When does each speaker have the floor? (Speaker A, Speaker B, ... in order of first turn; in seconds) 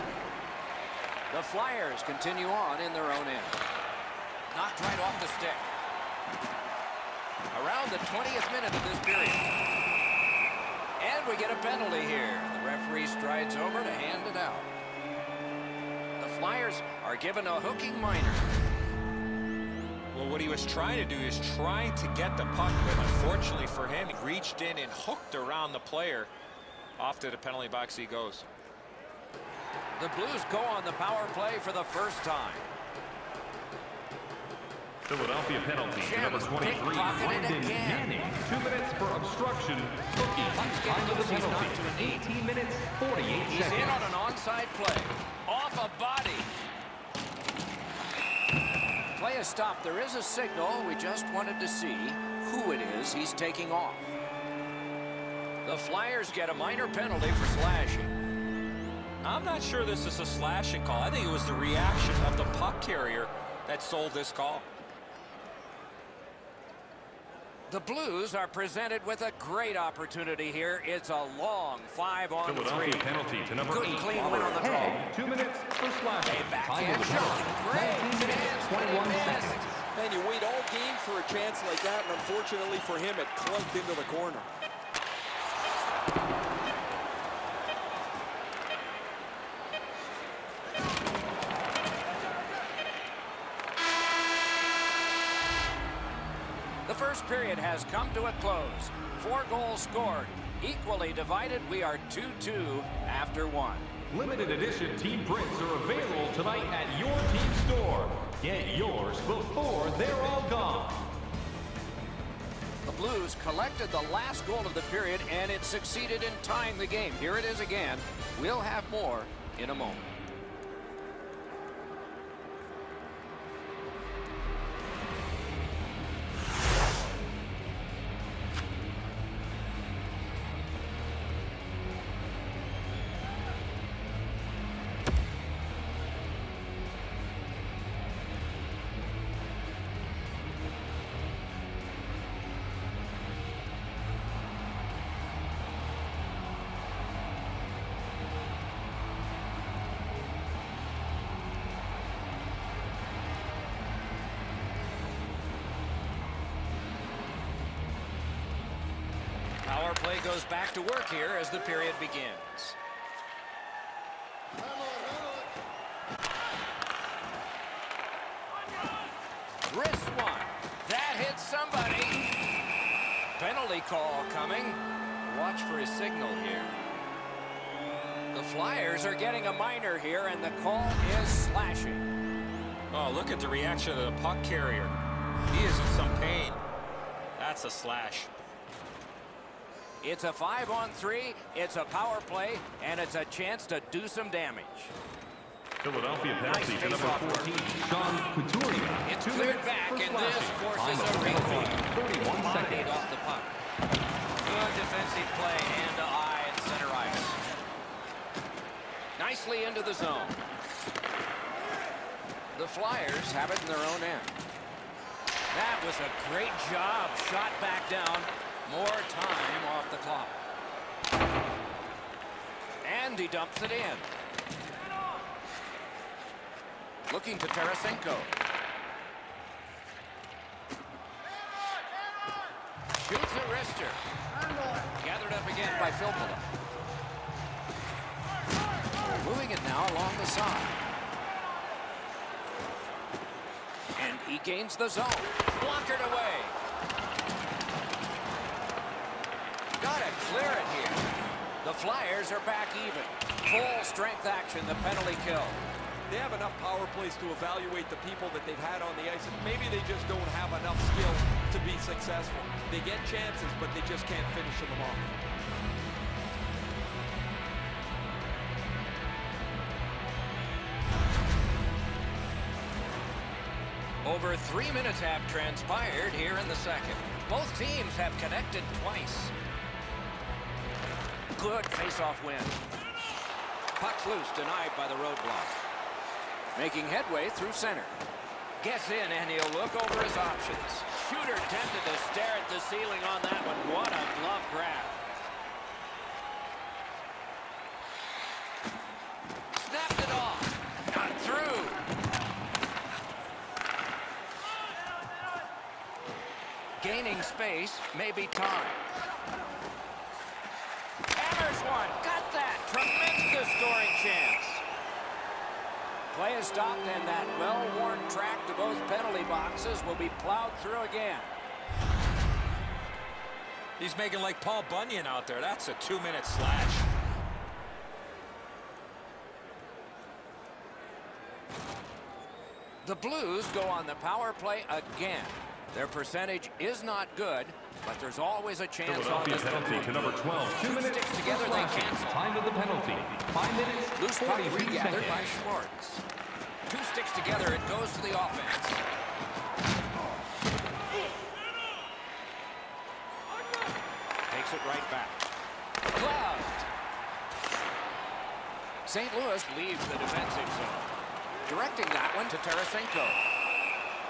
Speaker A: 1.3-3.6, 4.5-5.7, 7.5-9.5, 11.0-14.7, 16.2-18.5, 30.0-32.7, 36.0-38.1, 40.5-42.3, 43.5-46.5, 49.1-54.1, 55.6-58.1, 67.7-73.1, 73.7-75.1, 76.2-79.7, 96.8-103.9, 112.8-120.1, 159.6-162.8, 169.7-172.3, 173.4-176.8, 178.3-182.1, 190.0-194.9, 196.4-197.6, 199.0-203.5, 204.4-207.4, 209.2-210.4, 212.5-214.3, 215.5-220.4, 222.8-224.1, 227.1-228.3, 232.9-234.0, 234.9-236.4, 239.1-240.8, 243.9-246.6, 249.8-251.0, 251.6-255.6, 274.0-279.3, 281.4-282.6, 283.8-285.6, 286.5-288.0, 288.6-295.0, 299.5-301.8, 306.8-308.8, 311.1-314.6, 316.1-321.3, 332.8-342.2, 343.9-346.0, 346.7-348.8, 354.3-355.3, 355.9-356.7, 358.9-363.2
Speaker B: 20.1-26.3, 27.0-28.4, 59.2-64.7, 182.9-184.9, 185.5-186.6, 187.4-188.3, 323.8-326.9
Speaker C: 35.0-44.1, 72.4-79.8, 104.1-111.1, 195.8-203.1, 338.8-345.3
Speaker D: 79.9-84.5, 256.1-265.1